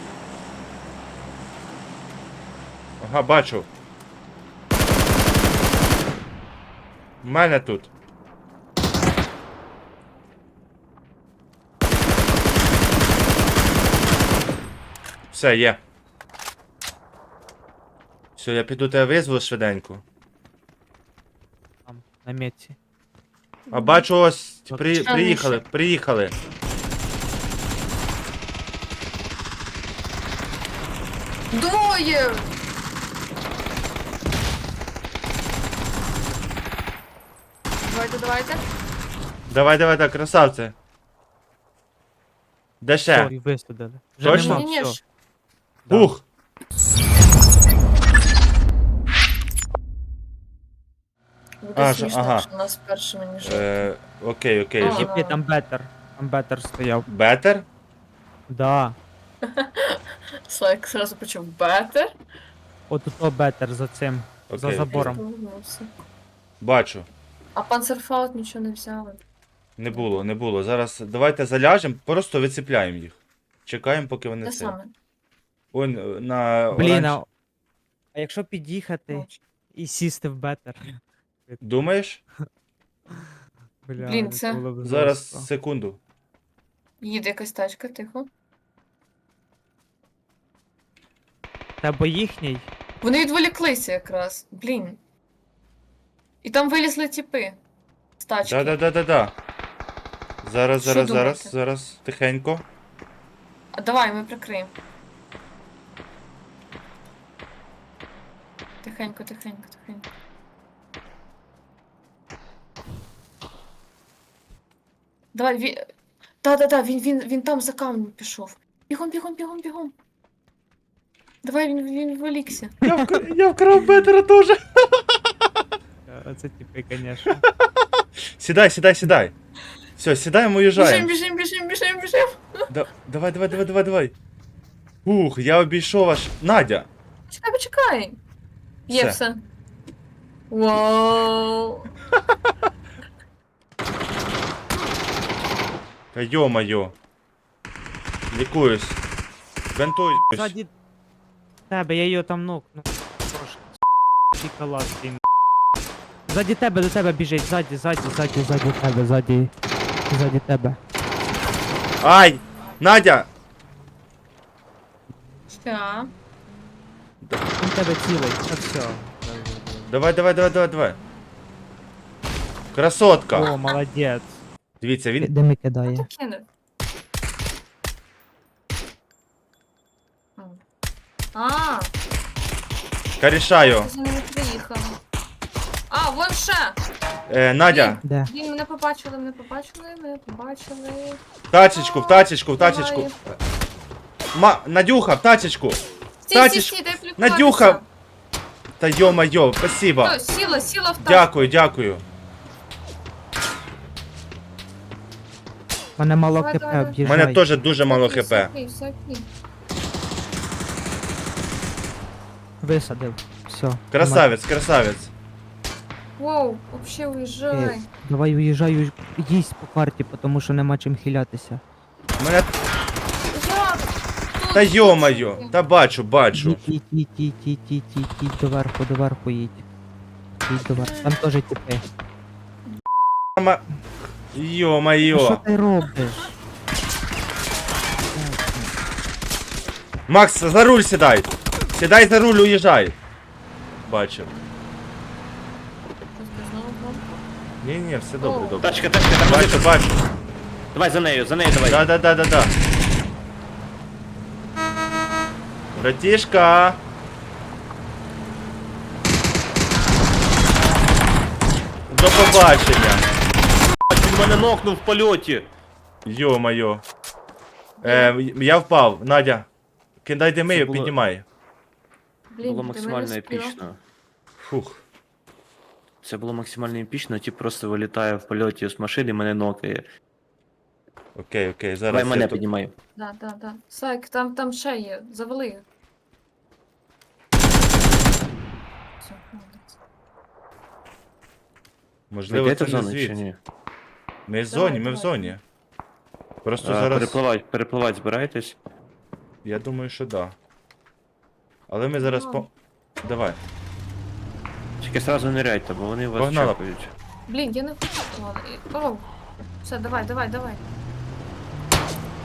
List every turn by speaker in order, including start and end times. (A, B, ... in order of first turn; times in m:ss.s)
0:03.0-0:03.7 A
0:07.2-0:07.9 A
0:15.3-0:15.8 A
0:18.4-0:20.0 A
0:21.9-0:22.8 B
0:23.7-0:24.1 C
0:23.7-0:26.4 A
0:24.9-0:25.6 C
0:31.5-0:32.5 C
0:37.8-0:38.6 C
0:39.5-0:40.8 A
0:42.8-0:43.3 A
0:43.1-0:45.0 B
0:44.2-0:44.7 A
0:44.3-0:45.0 C
0:45.9-0:46.1 B
0:45.9-0:46.2 A
0:51.6-0:53.9 C
0:51.8-0:52.5 A
0:53.4-0:55.1 A
0:54.8-0:55.4 C
0:54.8-0:57.1 B
0:57.1-0:57.7 A
0:58.5-0:59.0 B
0:59.4-1:02.1 C
1:02.9-1:05.2 B
1:04.5-1:05.2 A
1:04.9-1:05.9 C
1:06.6-1:07.1 A
1:07.6-1:09.2 C
1:09.8-1:14.8 A
1:09.9-1:10.2 C
1:14.4-1:14.9 C
1:15.7-1:17.2 A
1:16.7-1:17.3 B
1:18.1-1:21.6 B
1:19.1-1:19.4 C
1:21.6-1:22.2 A
1:23.8-1:25.5 B
1:24.0-1:24.7 C
1:24.8-1:26.0 A
1:27.0-1:28.3 C
1:31.8-1:32.7 B
1:33.0-1:35.0 C
1:36.4-1:37.6 C
1:38.2-1:38.8 C
1:38.4-1:39.4 A
1:40.4-1:42.7 A
1:40.8-1:41.5 C
1:43.7-1:44.7 C
1:48.8-1:50.0 C
1:55.3-1:55.9 C
1:56.4-1:59.9 C
2:01.4-2:02.8 C
2:02.9-2:05.0 A
2:06.1-2:07.4 B
2:08.4-2:09.3 A
2:10.0-2:11.1 A
2:10.8-2:12.4 C
2:12.7-2:14.1 A
2:15.0-2:16.9 A
2:17.3-2:18.2 C
2:18.9-2:19.4 C
2:18.9-2:19.2 A
2:20.5-2:21.9 C
2:26.1-2:27.0 A
2:28.3-2:29.0 A
2:29.7-2:30.5 A
2:30.1-2:30.7 B
2:31.7-2:33.8 B
2:34.3-2:35.2 B
2:36.3-2:39.5 B
2:40.1-2:40.8 B
2:42.0-2:43.3 A
2:45.5-2:46.1 C
2:47.6-2:49.9 B
2:49.9-2:51.0 A
2:52.7-2:53.5 A
2:53.3-2:54.4 B
2:54.8-2:55.3 A
2:55.2-2:56.1 B
2:55.9-2:56.5 C
3:01.3-3:01.9 C
3:03.2-3:03.9 A
3:03.6-3:05.0 C
3:05.9-3:06.8 C
3:07.3-3:08.0 A
3:07.7-3:13.2 C
3:08.0-3:08.3 B
3:11.5-3:13.1 A
3:14.3-3:17.8 A
3:16.2-3:17.9 C
3:18.8-3:20.2 A
3:20.0-3:21.3 C
3:21.0-3:22.0 A
3:26.0-3:27.4 B
3:26.4-3:27.0 C
3:27.0-3:28.5 A
3:27.9-3:29.3 C
3:32.6-3:34.3 B
3:33.9-3:35.1 A
3:36.2-3:37.9 C
3:37.5-3:41.6 B
3:42.2-3:42.5 A
3:43.3-3:43.8 C
3:44.4-3:45.5 C
3:44.5-3:46.6 A
3:46.3-3:49.6 B
3:50.4-3:51.8 B
3:50.8-3:51.2 C
3:53.4-3:53.6 A
3:54.3-3:55.4 A
3:55.1-3:56.3 B
3:58.1-3:58.6 B
4:00.1-4:03.0 A
4:03.9-4:04.3 A
4:06.1-4:07.2 C
4:07.6-4:10.0 A
4:08.2-4:08.6 C
4:08.6-4:09.8 D
4:10.7-4:11.9 D
4:11.7-4:12.5 A
4:15.8-4:16.8 A
4:21.9-4:23.1 A
4:23.9-4:25.5 D
4:26.0-4:26.8 A
4:27.8-4:28.1 C
4:27.8-4:29.5 A
4:30.0-4:31.2 A
4:30.5-4:30.9 D
4:32.3-4:33.6 C
4:32.4-4:33.8 D
4:34.4-4:34.8 A
4:36.0-4:39.9 D
4:41.2-4:42.4 A
4:41.9-4:42.7 D
4:43.0-4:45.6 C
4:49.0-4:49.8 C
4:52.1-4:53.2 A
4:52.3-4:53.4 D
4:54.3-4:55.4 A
4:54.5-4:55.4 C
4:56.4-4:57.2 A
4:56.6-4:58.6 D
4:59.4-5:00.4 A
5:01.7-5:02.5 A
5:02.0-5:02.5 C
5:03.0-5:03.4 A
5:04.8-5:06.9 D
5:06.2-5:06.6 A
5:07.3-5:09.1 C
5:09.6-5:10.6 C